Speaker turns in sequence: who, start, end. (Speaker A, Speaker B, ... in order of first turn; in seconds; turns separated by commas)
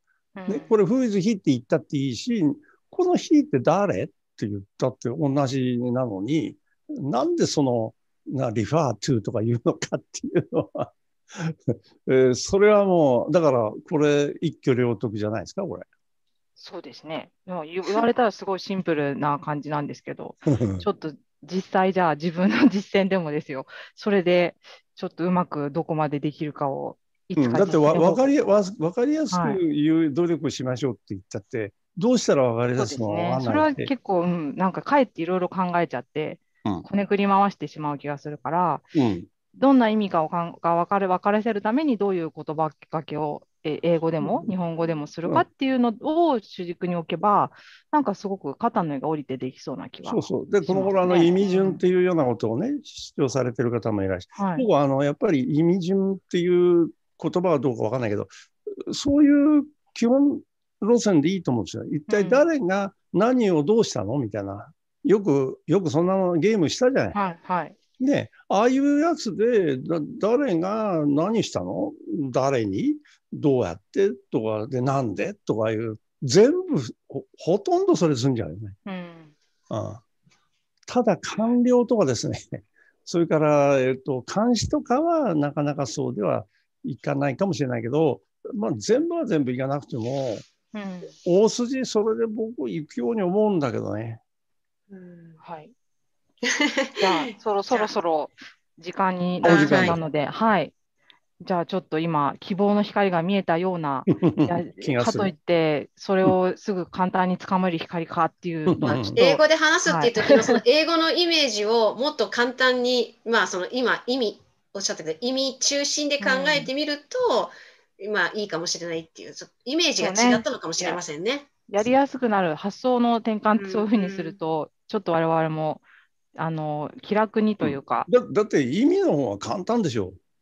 Speaker A: 0.3-0.7, Speaker B: 0.5-15.9, Speaker A: 16.6-28.5, Speaker B: 20.4-20.9, Speaker B: 27.4-33.9, Speaker A: 29.3-29.6, Speaker A: 32.8-38.9, Speaker B: 39.0-39.3, Speaker A: 39.5-51.8, Speaker B: 44.2-44.5, Speaker B: 50.0-58.3, Speaker A: 54.4-54.7, Speaker B: 58.9-67.2, Speaker A: 62.1-62.5, Speaker A: 67.1-67.8, Speaker B: 68.0-78.8, Speaker A: 78.8-79.3, Speaker B: 79.7-80.0, Speaker B: 80.9-90.5, Speaker A: 90.7-91.1, Speaker B: 91.2-94.2, Speaker C: 94.9-95.4, Speaker A: 95.4-95.7, Speaker C: 96.5-97.0, Speaker A: 97.0-100.7, Speaker B: 99.4-100.0, Speaker C: 99.5-100.0, Speaker A: 101.4-110.6, Speaker B: 104.1-105.3, Speaker B: 108.7-109.2, Speaker C: 108.8-121.9, Speaker A: 116.2-116.7, Speaker A: 120.0-121.0, Speaker A: 121.7-125.8, Speaker C: 123.6-124.4, Speaker A: 126.3-128.1, Speaker B: 127.6-130.2